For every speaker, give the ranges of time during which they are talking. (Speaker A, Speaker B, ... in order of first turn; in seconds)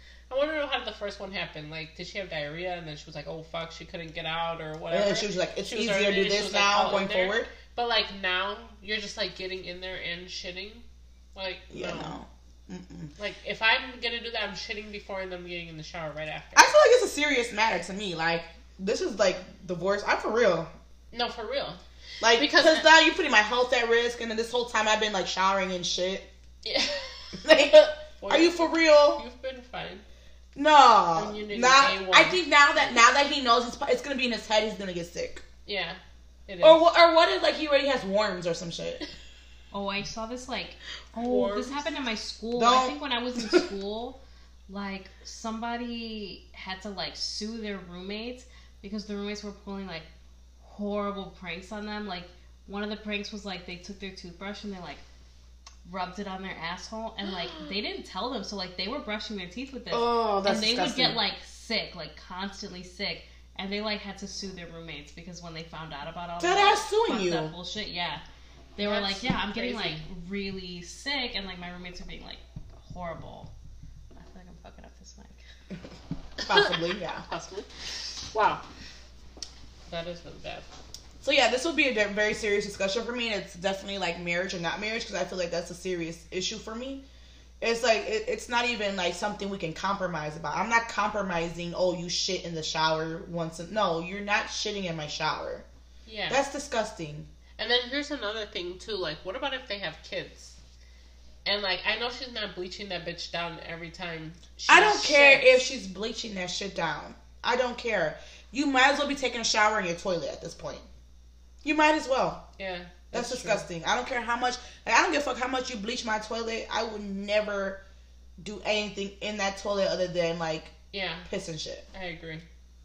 Speaker A: 0.3-10.8, 11.3-12.2, 13.2-16.7, 21.1-22.9, 26.6-27.5, 28.2-30.0, 31.2-32.4, 35.7-36.9, 41.1-41.8, 68.8-70.0, 76.4-77.7, 78.3-78.6, 79.9-80.7, 96.1-96.4, 97.6-100.6, 101.5-105.6, 112.6-113.7, 120.9-121.3, 121.9-122.5
Speaker B: 4.9-7.5, 11.7-13.1, 16.6-20.7, 22.2-26.3, 27.4-29.2, 30.6-35.4, 36.6-39.0, 42.6-43.7, 59.9-61.2, 66.4-67.5, 76.4-77.2, 81.2-87.0, 87.6-95.7, 96.3-97.3, 104.7-110.9, 111.6-112.5, 113.1-117.8, 118.4-120.7, 121.3-121.8
Speaker C: 39.7-44.2, 44.7-50.1, 50.6-55.0, 55.9-68.2, 68.8-73.5, 74.2-75.4